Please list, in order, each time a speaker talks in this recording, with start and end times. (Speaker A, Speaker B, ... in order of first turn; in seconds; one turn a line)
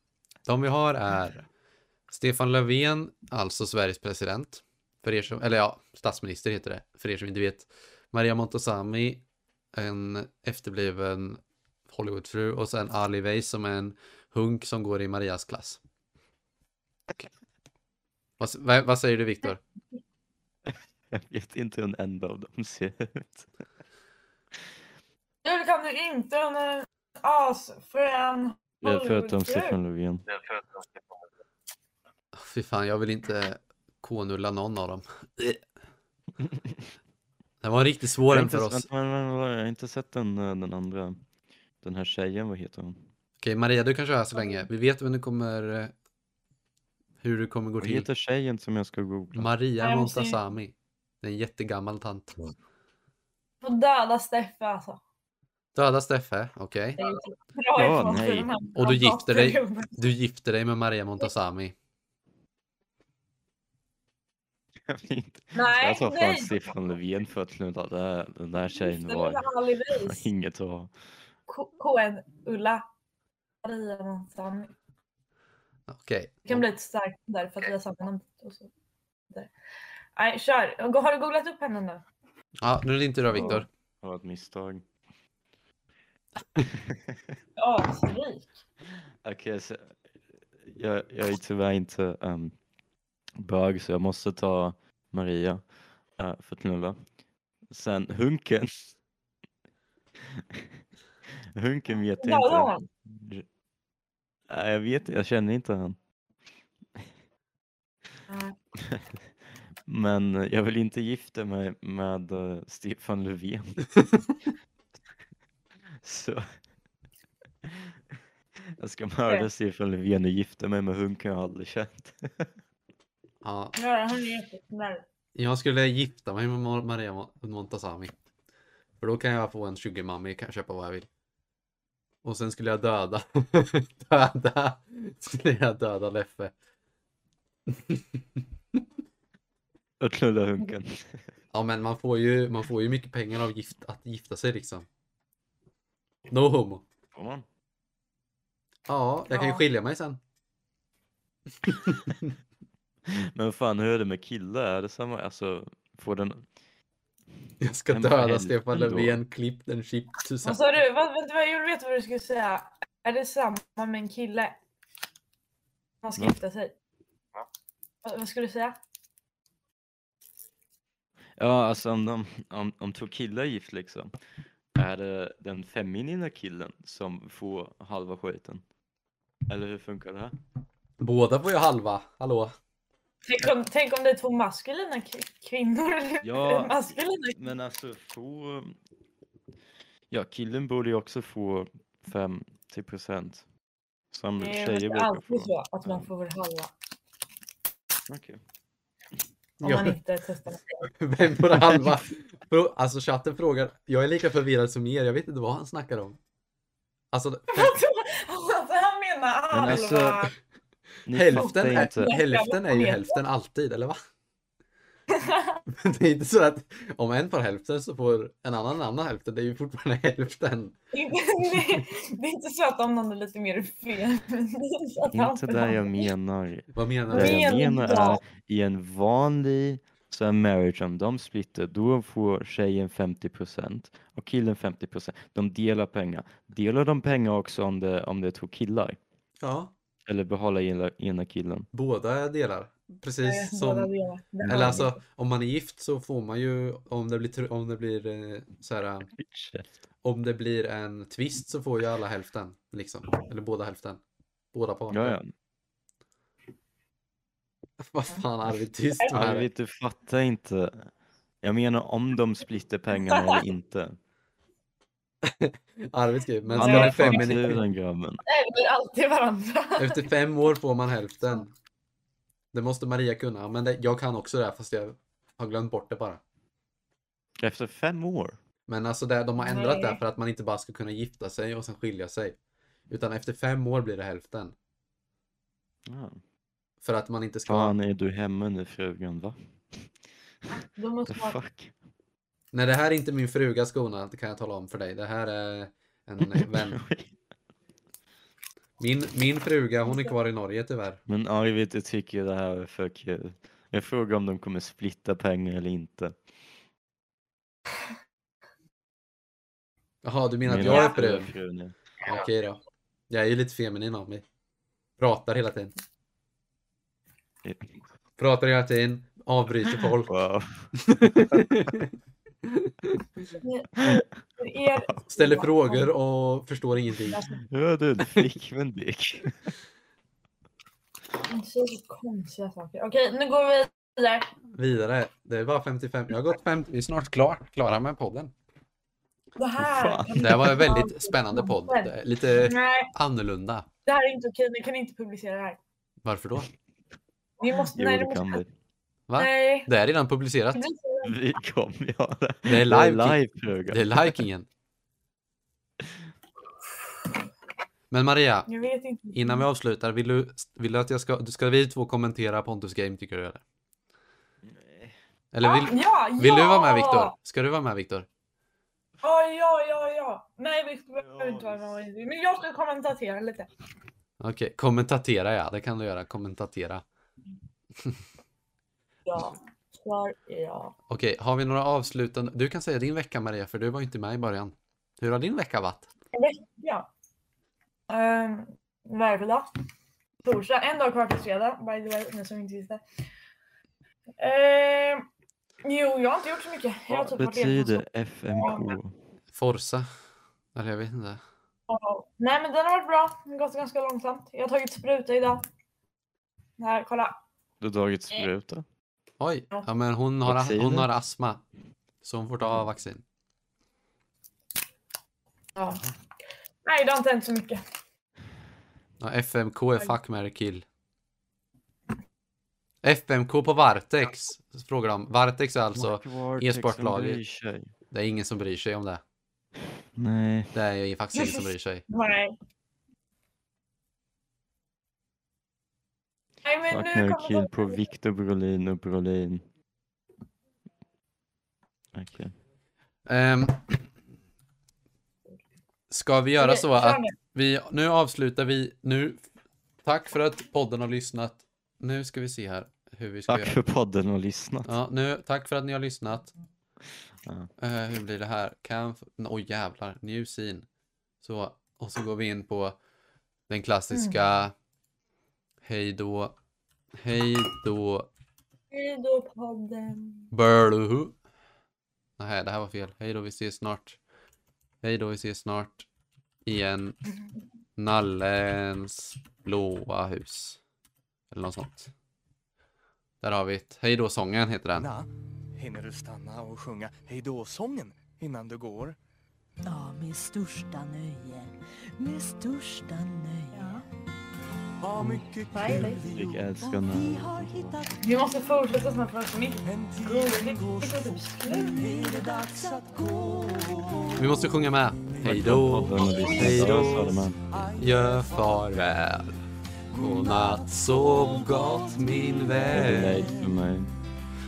Speaker A: 0.5-1.4
Speaker A: 2.1-9.2
Speaker A: 9.7-15.8
Speaker A: 18.4-19.6
Speaker B: 20.7-23.5
Speaker C: 25.4-29.8
Speaker B: 28.8-30.3
Speaker A: 32.4-35.6
Speaker A: 37.6-38.9
Speaker B: 38.3-41.2
Speaker B: 41.8-43.0
Speaker A: 43.4-45.9
Speaker C: 44.4-44.6
Speaker A: 47.2-48.1
Speaker B: 47.8-49.5
Speaker A: 49.4-52.5
Speaker C: 49.8-50.4
Speaker C: 53.6-55.0
Speaker A: 55.8-57.0
Speaker C: 57.0-60.1
Speaker B: 57.7-58.5
Speaker A: 58.8-61.8
Speaker B: 64.9-70.9
Speaker C: 65.5-66.5
Speaker C: 68.8-70.2
Speaker C: 71.5-72.9
Speaker C: 73.6-74.7
Speaker A: 75.9-76.6
Speaker C: 76.5-78.7
Speaker C: 80.2-82.0
Speaker A: 82.6-83.7
Speaker B: 83.3-84.8
Speaker B: 86.7-87.3
Speaker C: 87.6-88.5
Speaker B: 89.2-90.0
Speaker B: 90.5-92.5
Speaker B: 93.4-95.7
Speaker B: 96.2-97.0
Speaker B: 97.7-99.0
Speaker B: 100.3-100.8
Speaker B: 101.5-103.5
Speaker C: 102.2-102.9
Speaker B: 104.5-106.0
Speaker C: 108.3-108.6
Speaker B: 108.8-109.3
Speaker B: 109.9-113.8
Speaker B: 116.0-116.5
Speaker B: 117.6-118.0
Speaker B: 118.6-122.5
Speaker A: 123.4-123.8
Speaker C: 123.8-125.1
Speaker A: 125.3-128.1
Speaker A: 129.0-131.1
Speaker A: 132.2-136.5
Speaker A: 137.7-138.2
Speaker B: 140.0-141.3
Speaker A: 141.5-144.9
Speaker A: 146.3-146.8
Speaker B: 147.1-147.5
Speaker A: 148.9-150.2
Speaker C: 149.3-149.6
Speaker A: 151.6-152.0
Speaker B: 153.1-156.5
Speaker A: 157.6-160.8
Speaker B: 157.9-159.2
Speaker C: 160.4-164.6
Speaker C: 166.0-166.7
Speaker C: 168.0-168.8
Speaker B: 171.4-174.1
Speaker B: 174.8-178.6
Speaker B: 179.5-180.3
Speaker A: 181.0-182.5
Speaker C: 183.2-187.4
Speaker B: 186.2-188.8
Speaker B: 190.1-193.4
Speaker B: 194.1-196.1
Speaker C: 194.4-196.7
Speaker B: 198.1-198.4
Speaker A: 199.6-200.0
Speaker C: 199.6-200.9
Speaker A: 200.9-206.2
Speaker A: 207.1-207.8
Speaker C: 207.5-210.3
Speaker B: 209.5-210.3
Speaker B: 211.1-212.2
Speaker A: 211.1-214.0
Speaker C: 211.3-213.2
Speaker C: 215.1-215.6
Speaker A: 215.7-220.8
Speaker C: 220.9-226.1
Speaker A: 221.6-221.8
Speaker B: 225.1-239.0
Speaker A: 226.7-227.6
Speaker C: 227.1-228.2
Speaker A: 239.4-239.7
Speaker B: 240.1-241.7
Speaker A: 241.7-243.9
Speaker C: 243.2-245.0
Speaker B: 244.4-244.9
Speaker A: 244.4-249.1
Speaker B: 249.1-249.7
Speaker A: 250.0-254.0
Speaker A: 254.5-255.2
Speaker B: 254.9-255.3
Speaker A: 257.9-259.5
Speaker B: 259.1-260.9
Speaker B: 261.4-264.0
Speaker A: 265.2-267.6
Speaker B: 266.6-268.2
Speaker C: 266.6-267.3
Speaker C: 268.3-270.0
Speaker A: 269.8-271.5
Speaker A: 272.5-276.2
Speaker B: 277.4-278.4
Speaker A: 278.7-282.4
Speaker C: 279.4-280.0
Speaker A: 282.9-284.5
Speaker B: 285.9-286.2
Speaker A: 286.8-287.8
Speaker B: 287.5-289.9
Speaker C: 290.8-291.4
Speaker B: 291.1-291.7
Speaker A: 292.5-296.8
Speaker B: 296.2-297.1
Speaker A: 298.8-301.0
Speaker B: 301.1-306.2
Speaker A: 310.0-311.3
Speaker B: 310.4-311.7
Speaker C: 310.6-310.9
Speaker A: 312.0-314.2
Speaker A: 315.0-315.7
Speaker B: 317.4-317.8
Speaker A: 318.2-320.1
Speaker B: 320.1-320.7
Speaker A: 320.8-321.9
Speaker A: 322.5-323.1
Speaker C: 323.4-325.9
Speaker A: 325.1-327.2
Speaker C: 327.1-327.4
Speaker B: 327.5-329.5
Speaker C: 331.3-334.3
Speaker A: 334.6-338.3
Speaker C: 339.4-342.9
Speaker B: 339.6-340.7
Speaker A: 340.2-343.7
Speaker C: 343.9-345.6
Speaker A: 346.1-346.5
Speaker C: 347.4-348.4
Speaker B: 347.6-348.5
Speaker A: 349.1-350.7
Speaker C: 349.2-349.7
Speaker C: 350.5-351.1
Speaker B: 351.0-354.2
Speaker A: 352.5-354.5
Speaker A: 357.9-358.5
Speaker C: 358.5-359.4
Speaker A: 359.1-363.4
Speaker B: 364.4-364.9
Speaker A: 365.3-368.1
Speaker C: 365.4-367.1
Speaker C: 369.0-373.5
Speaker B: 371.0-371.7
Speaker A: 374.2-376.8
Speaker C: 379.1-380.8
Speaker A: 380.9-385.9
Speaker C: 386.1-386.9
Speaker C: 387.9-389.5
Speaker C: 390.2-392.8
Speaker C: 394.2-395.1
Speaker C: 395.6-397.8
Speaker B: 396.9-398.9
Speaker C: 398.3-398.7
Speaker A: 399.3-399.9
Speaker A: 400.5-401.2
Speaker C: 401.7-405.4
Speaker C: 406.6-407.2
Speaker B: 407.6-408.6
Speaker A: 409.2-411.4
Speaker B: 410.2-410.9
Speaker A: 412.0-413.0
Speaker C: 415.6-415.8
Speaker C: 416.6-417.6
Speaker A: 419.0-420.6
Speaker A: 422.8-427.2
Speaker B: 425.7-427.7
Speaker A: 427.9-429.0
Speaker B: 430.0-430.6
Speaker A: 430.5-431.9
Speaker C: 431.9-432.4
Speaker C: 436.4-437.9
Speaker B: 436.7-439.4
Speaker B: 441.9-442.4
Speaker A: 443.1-443.8
Speaker A: 445.9-449.2
Speaker C: 446.4-447.1
Speaker A: 449.8-453.6
Speaker B: 453.3-454.7
Speaker A: 454.6-456.3
Speaker B: 457.2-457.5
Speaker A: 457.6-460.7
Speaker A: 461.2-462.8
Speaker A: 463.5-464.5
Speaker C: 463.9-464.2
Speaker A: 465.6-466.3
Speaker A: 467.0-468.1
Speaker C: 468.7-470.3
Speaker A: 470.3-471.1
Speaker A: 472.2-474.0
Speaker A: 474.8-475.9
Speaker A: 476.5-477.0
Speaker A: 477.8-480.6
Speaker A: 481.3-481.9
Speaker A: 483.2-484.9
Speaker D: 484.8-489.0
Speaker E: 489.7-493.8
Speaker C: 493.6-493.8
Speaker D: 494.8-496.5
Speaker C: 495.5-496.0
Speaker B: 496.1-497.8
Speaker E: 496.6-498.0
Speaker C: 498.0-501.8
Speaker D: 499.6-504.1
Speaker E: 501.4-504.1
Speaker A: 504.2-507.2
Speaker D: 505.2-508.7
Speaker B: 505.2-507.4
Speaker C: 506.2-506.5
Speaker A: 507.8-509.4
Speaker D: 509.9-513.6
Speaker A: 510.0-513.3
Speaker B: 512.7-513.9